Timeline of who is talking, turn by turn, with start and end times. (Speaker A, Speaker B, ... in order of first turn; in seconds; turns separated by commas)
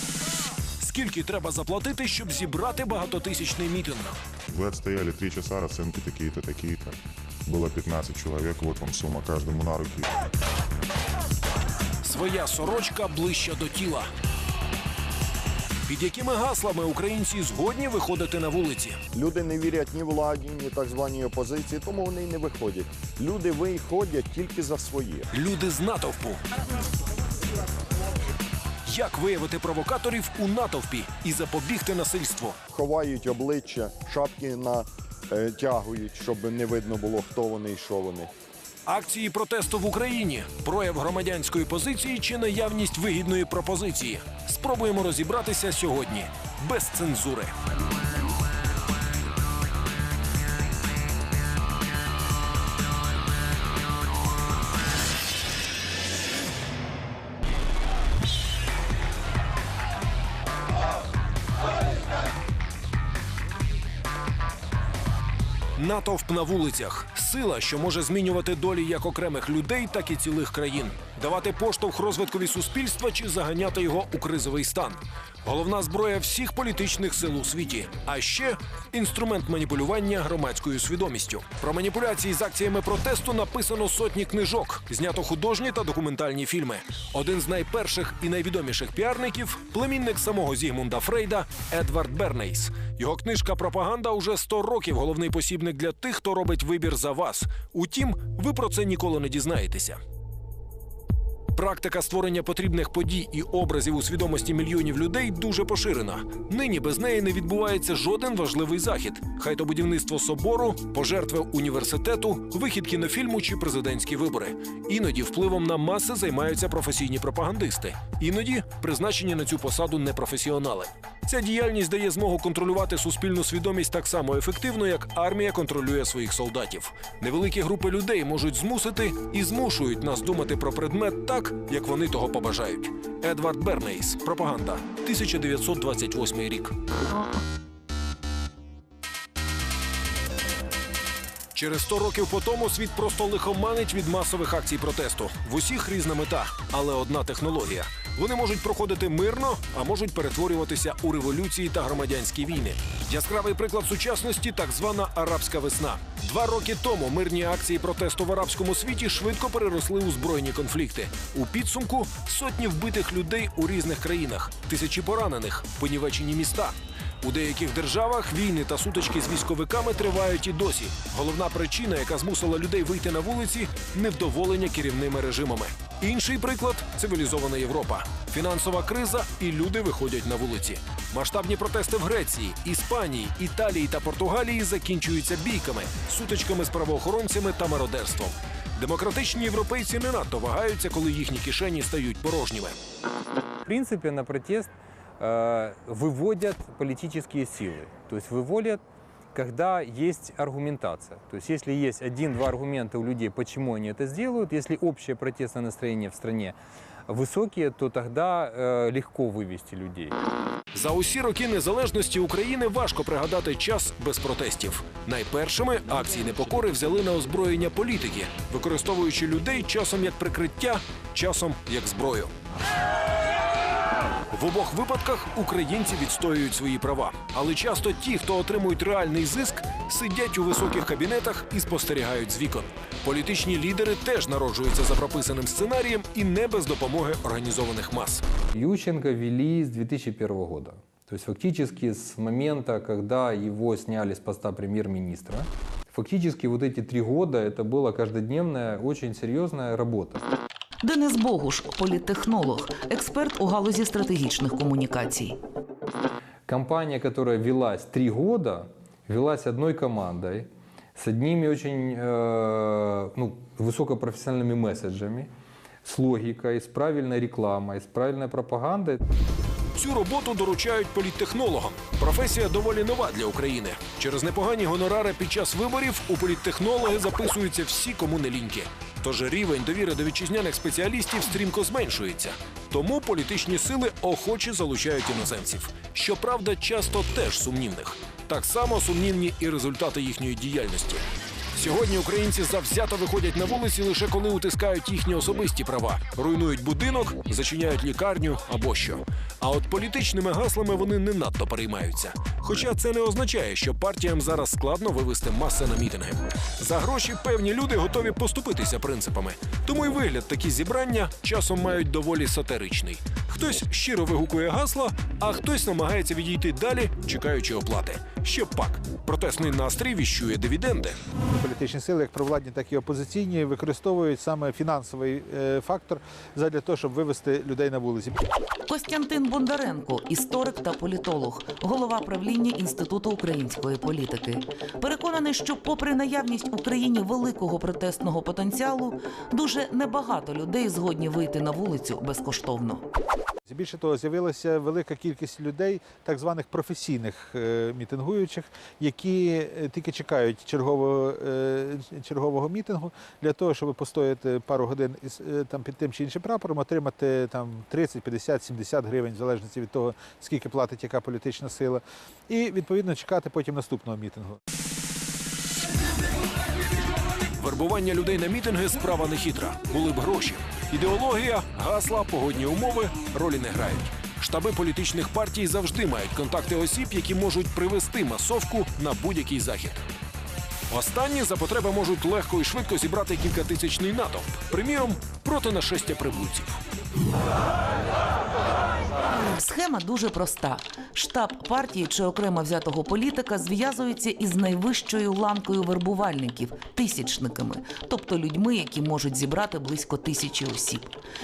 Speaker A: 0.8-4.2, Speaker B: 4.5-10.1, Speaker A: 12.0-14.1, Speaker A: 15.9-19.0, Speaker C: 19.1-25.3, Speaker A: 25.3-26.4, Speaker A: 28.9-32.6, Speaker C: 32.7-38.3, Speaker A: 38.9-47.5, Speaker A: 65.8-100.0, Speaker A: 101.5-136.7, Speaker A: 141.5-192.8, Speaker D: 193.7-198.8, Speaker D: 199.3-206.6, Speaker D: 207.1-210.2, Speaker A: 210.7-222.3, Speaker A: 224.3-238.2, Speaker D: 238.5-250.3, Speaker E: 250.8-255.4, Speaker D: 256.5-265.3, Speaker D: 265.8-269.0, Speaker A: 269.8-321.0, Speaker F: 321.3-328.2, Speaker E: 328.7-342.9, Speaker F: 343.5-364.4, Speaker A: 367.4-379.9, Speaker A: 380.7-386.6, Speaker E: 389.4-400.9